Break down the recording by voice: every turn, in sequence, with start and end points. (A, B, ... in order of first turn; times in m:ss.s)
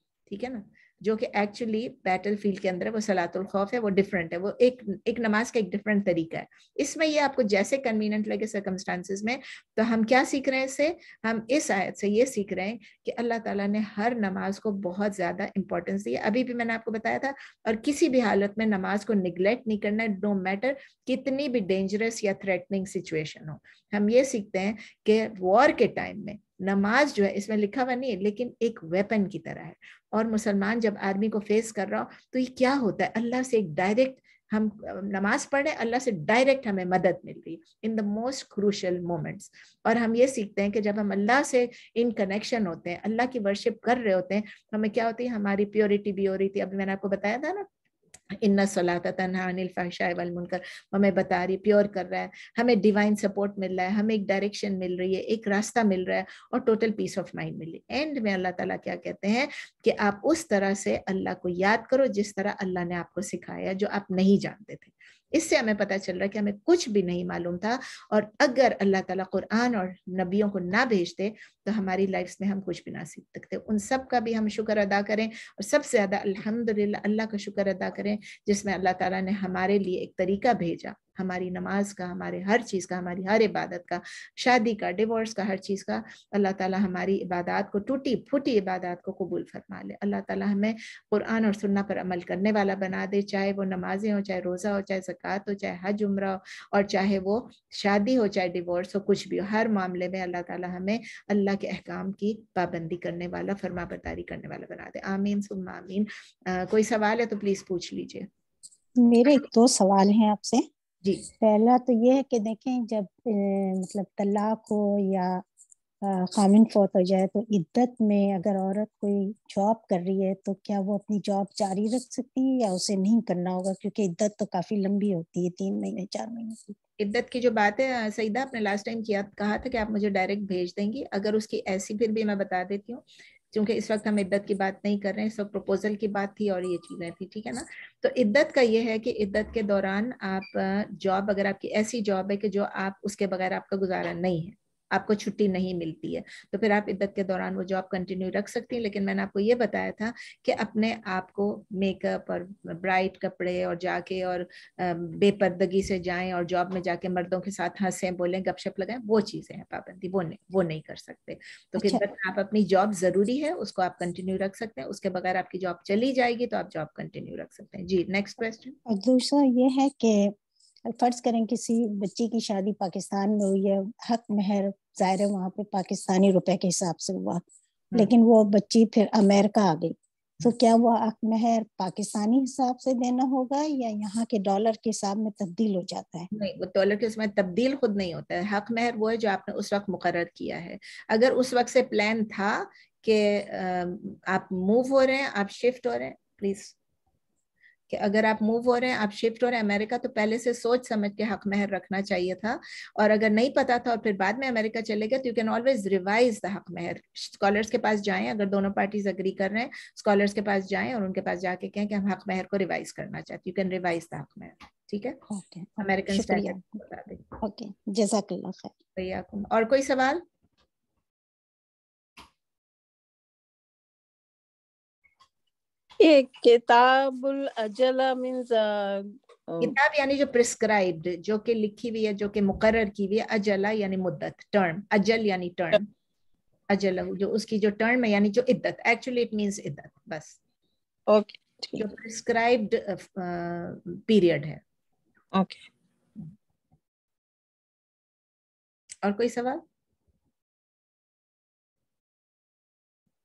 0:00.3-0:47.7 A
0:48.4-1:48.3 A
1:49.0-1:50.6 B
1:51.3-1:55.4 B
1:56.0-2:06.8 B
2:07.0-2:48.8 A
2:41.8-2:42.0 B
2:48.9-2:50.3 B
2:50.9-2:57.4 B
2:58.0-3:06.3 B
3:06.3-3:16.8 A
3:17.9-3:35.2 A
3:35.3-3:36.6 B
3:35.8-3:37.3 A
3:37.4-3:38.7 B
3:39.0-3:40.2 A
3:46.0-3:49.8 C
3:49.6-3:55.9 A
3:56.7-4:00.4 A
4:01.1-4:01.9 C
4:01.8-4:04.6 A
4:05.3-4:05.6 C
4:09.0-4:09.6 A